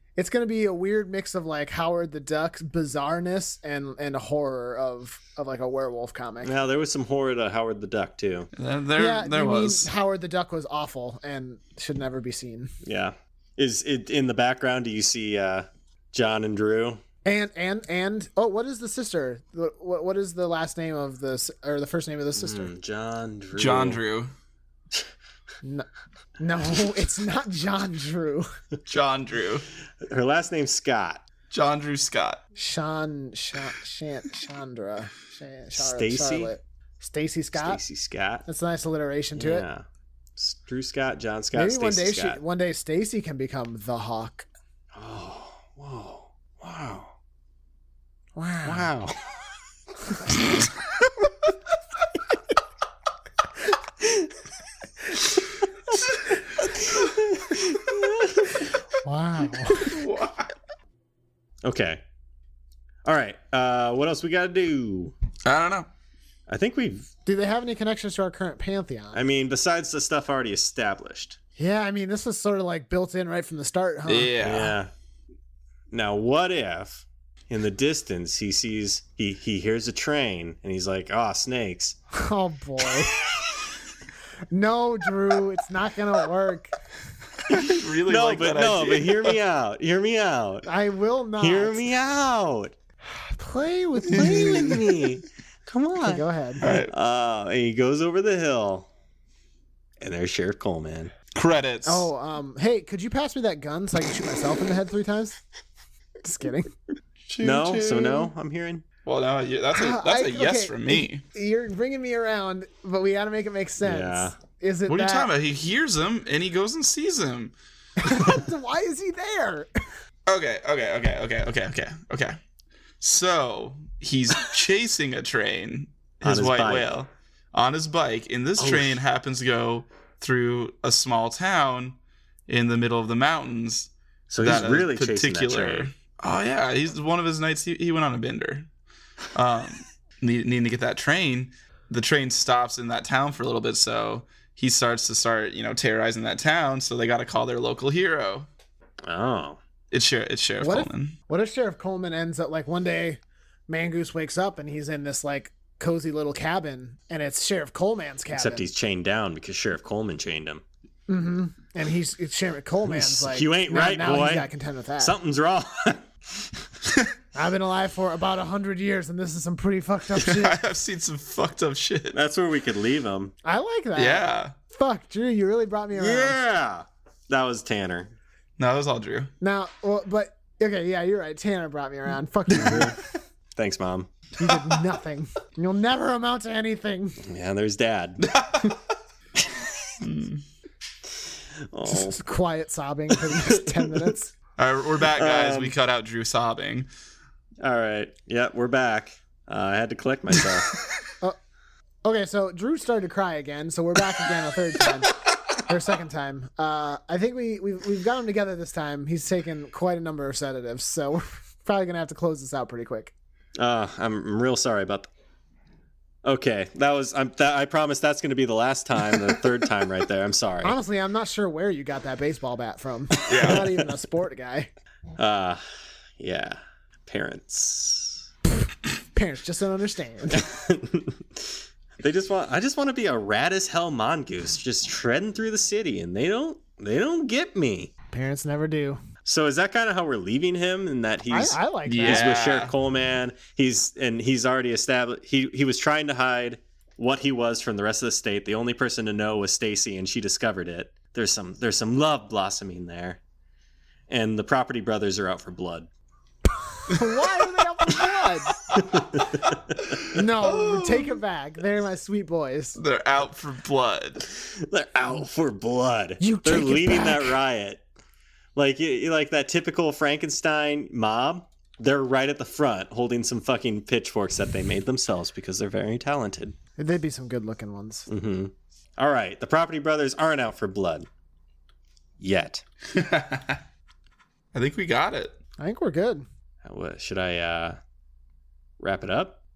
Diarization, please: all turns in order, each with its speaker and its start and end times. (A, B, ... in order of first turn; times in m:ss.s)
0:00.2-0:06.5 A
0:06.4-0:08.5 B
0:08.6-0:09.9 C
0:09.0-0:12.7 A
0:12.8-0:17.0 B
0:17.2-0:22.7 A
0:22.4-0:24.0 B
0:23.6-0:24.3 C
0:25.6-0:25.9 A
0:26.4-0:28.5 A
0:28.9-0:29.7 C
0:30.0-0:31.2 B
0:31.5-0:32.4 C
0:32.6-0:37.8 A
0:35.8-0:36.5 B
0:37.5-0:38.4 B
0:38.4-0:39.6 A
0:39.4-0:42.4 B
0:41.5-0:44.5 A
0:44.9-0:47.1 B
0:48.4-0:48.9 A
0:48.6-0:49.2 B
0:57.7-0:58.2 B
0:59.0-1:00.0 A
0:59.7-1:00.5 C
1:01.6-1:02.0 B
1:03.0-1:05.2 B
1:05.4-1:05.9 C
1:06.5-1:07.1 B
1:07.3-1:09.2 A
1:09.1-1:11.4 B
1:11.6-1:14.4 A
1:14.1-1:14.8 C
1:14.4-1:14.9 B
1:15.9-1:22.0 B
1:22.1-1:23.2 A
1:24.5-1:26.8 A
1:27.5-1:29.4 C
1:27.5-1:30.7 B
1:30.6-1:31.9 A
1:31.4-1:32.8 B
1:33.2-1:34.9 A
1:34.0-1:38.9 B
1:34.2-1:34.8 C
1:36.0-1:36.6 A
1:36.6-1:36.9 C
1:40.0-1:41.1 B
1:41.3-1:42.1 C
1:41.8-1:45.4 A
1:46.2-1:46.7 A
1:47.3-1:48.3 C
1:47.4-1:48.8 B
1:49.0-1:51.2 C
1:49.7-1:55.3 A
1:53.8-1:54.4 B
1:54.9-1:57.5 C
1:58.0-1:59.7 A
2:00.3-2:02.4 C
2:03.0-2:12.0 C
2:06.2-2:06.9 B
2:08.6-2:09.0 B
2:12.5-2:18.7 C
2:14.3-2:15.9 B
2:19.3-2:28.5 C
2:29.0-2:29.6 B
2:29.9-2:31.2 C
2:30.6-2:38.7 A
2:38.3-2:40.6 B
2:41.1-2:45.2 A
2:42.8-2:46.6 B
2:47.3-2:50.6 A
2:50.2-2:52.2 C
2:52.1-2:53.3 B
2:53.4-2:56.4 A
2:54.0-2:54.5 C
2:55.9-2:58.1 B
2:58.6-2:59.3 C
2:59.4-3:02.9 A
3:02.5-3:02.9 B
3:03.6-3:04.1 B
3:04.4-3:07.2 A
3:07.2-3:08.3 B
3:08.2-3:08.8 C
3:09.4-3:10.0 B
3:10.0-3:10.4 C
3:11.7-3:12.2 B
3:11.9-3:14.3 A
3:13.4-3:14.1 B
3:14.6-3:16.9 C
3:15.1-3:15.8 B
3:17.6-3:20.7 B
3:22.0-3:33.1 A
3:33.6-3:35.1 B
3:36.2-3:40.8 B
3:40.6-3:44.7 A
3:43.2-3:43.8 C
3:45.2-3:45.6 B
3:46.2-3:48.2 B
3:49.1-3:50.5 A
3:50.3-3:57.9 B
3:58.1-3:59.0 A
3:59.2-4:13.2 B
4:01.3-4:02.3 A
4:01.9-4:02.7 C
4:14.1-4:15.9 B
4:16.9-4:18.7 A
4:18.8-4:19.5 B
4:20.1-4:22.8 A
4:20.4-4:21.2 C
4:22.8-4:24.2 C
4:24.4-4:27.8 B
4:26.2-4:27.4 A
4:28.6-4:36.6 B
4:36.8-4:38.1 A
4:38.1-4:41.1 B
4:42.2-4:42.6 B
4:42.9-4:43.6 C
4:44.5-4:45.4 C
4:45.6-4:46.3 A
4:46.6-4:47.8 B
4:48.8-4:49.4 B